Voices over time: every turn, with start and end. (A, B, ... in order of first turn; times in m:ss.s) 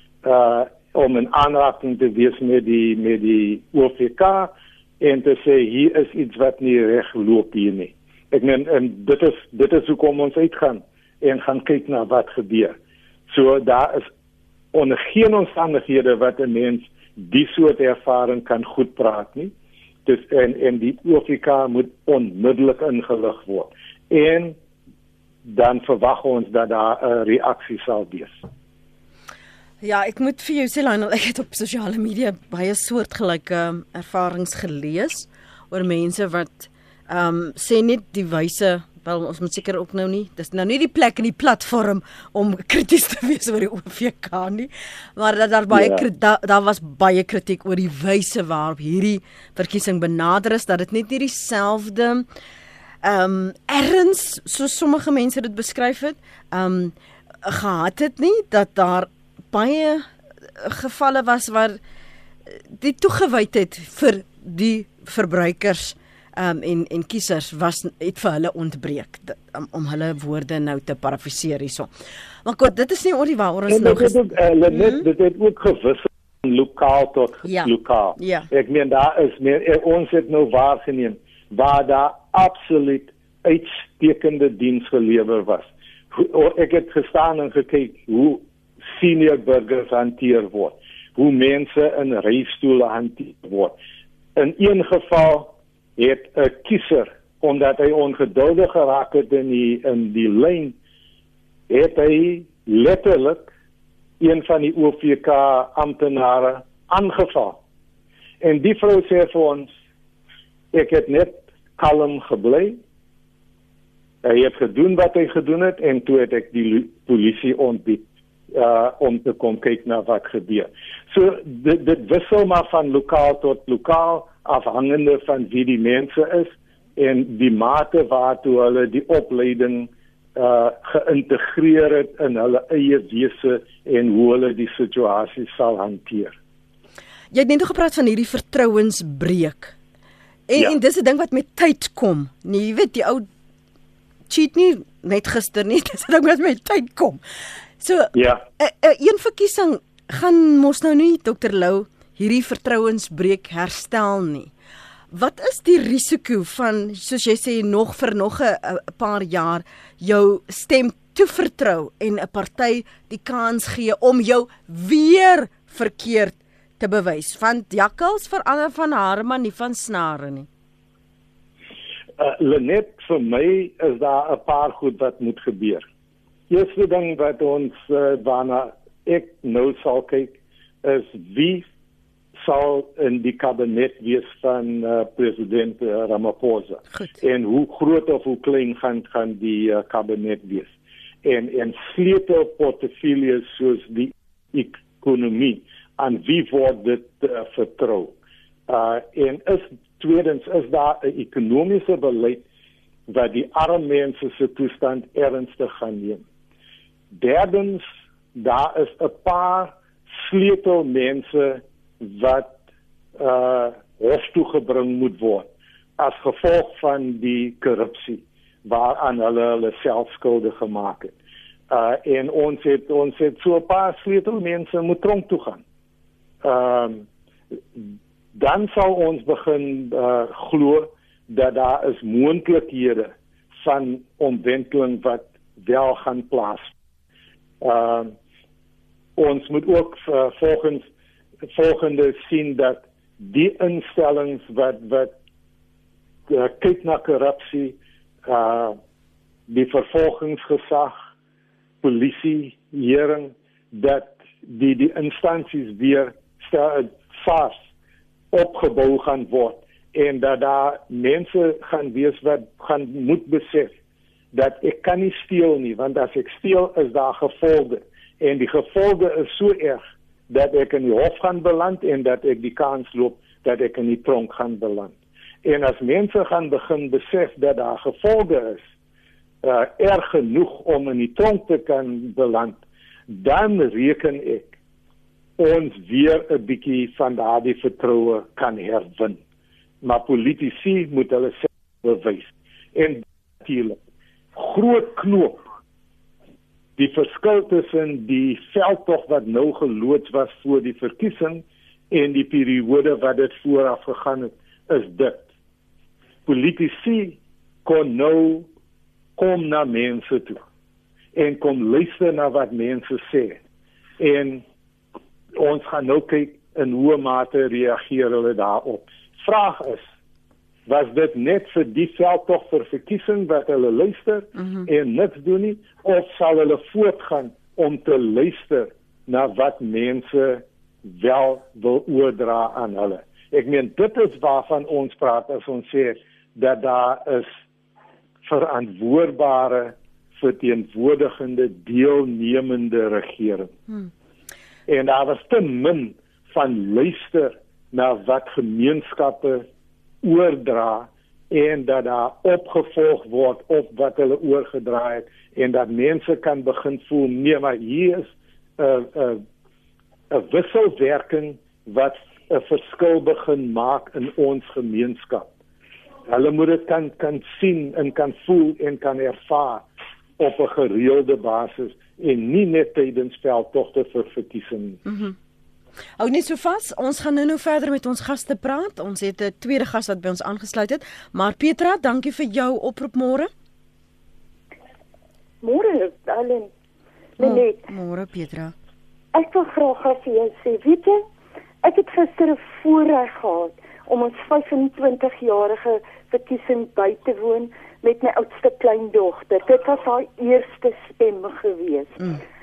0:00.2-0:12.8 A
0:13.3-0:14.1 A
0:14.7-0:19.5 A
0:20.0-0:24.6 A
0:25.4-0:28.4 A
0:29.8-0:52.2 B
0:45.7-0:46.0 A
0:53.0-1:00.1 B
1:00.6-1:01.8 B
1:02.7-1:11.9 B
1:12.4-1:14.2 B
1:13.7-1:33.8 A
1:14.7-1:15.0 B
1:17.4-1:18.5 B
1:34.3-1:40.8 A
1:41.7-1:43.5 A
1:44.2-1:47.6 A
1:48.4-1:49.7 A
1:50.7-1:52.8 A
1:54.2-2:16.3 A
2:17.3-2:19.7 B
2:20.5-2:23.3 B
2:24.3-2:27.2 B
2:27.8-2:34.5 B
2:28.1-2:28.4 A
2:35.1-2:50.5 B
2:52.2-2:55.8 A
2:56.5-3:01.6 A
3:02.4-3:10.7 A
3:11.2-3:18.1 A
3:18.7-3:22.4 A
3:23.1-3:26.2 A
3:27.1-3:32.6 A
3:33.2-3:41.1 A
3:41.7-3:45.6 A
3:46.4-3:47.0 A
3:47.7-3:56.7 A
3:57.6-3:58.1 A
3:59.2-4:00.9 A
4:01.5-4:05.1 A
4:06.3-4:08.8 A
4:09.5-4:10.9 A
4:11.8-4:17.6 A
4:18.3-4:23.7 A
4:24.3-4:38.6 A
4:39.4-4:44.5 A
4:45.4-4:49.2 A
4:49.8-4:53.8 A
4:54.3-4:55.4 A
4:56.8-5:05.2 A
5:06.2-5:08.5 A
5:09.2-5:10.4 A
5:11.1-5:13.4 A
5:14.0-5:14.4 A
5:15.3-5:19.8 A
5:20.6-5:37.3 A
5:38.2-5:43.5 A
5:44.7-5:49.4 A
5:50.0-5:59.2 A
6:00.1-6:05.3 A
6:06.1-6:09.7 A
6:10.2-6:14.8 A
6:14.8-6:15.1 B
6:16.0-6:23.3 B
6:25.4-6:26.5 C
6:27.2-6:27.6 C
6:27.2-6:28.5 B
6:29.1-6:31.0 C
6:31.6-6:42.1 C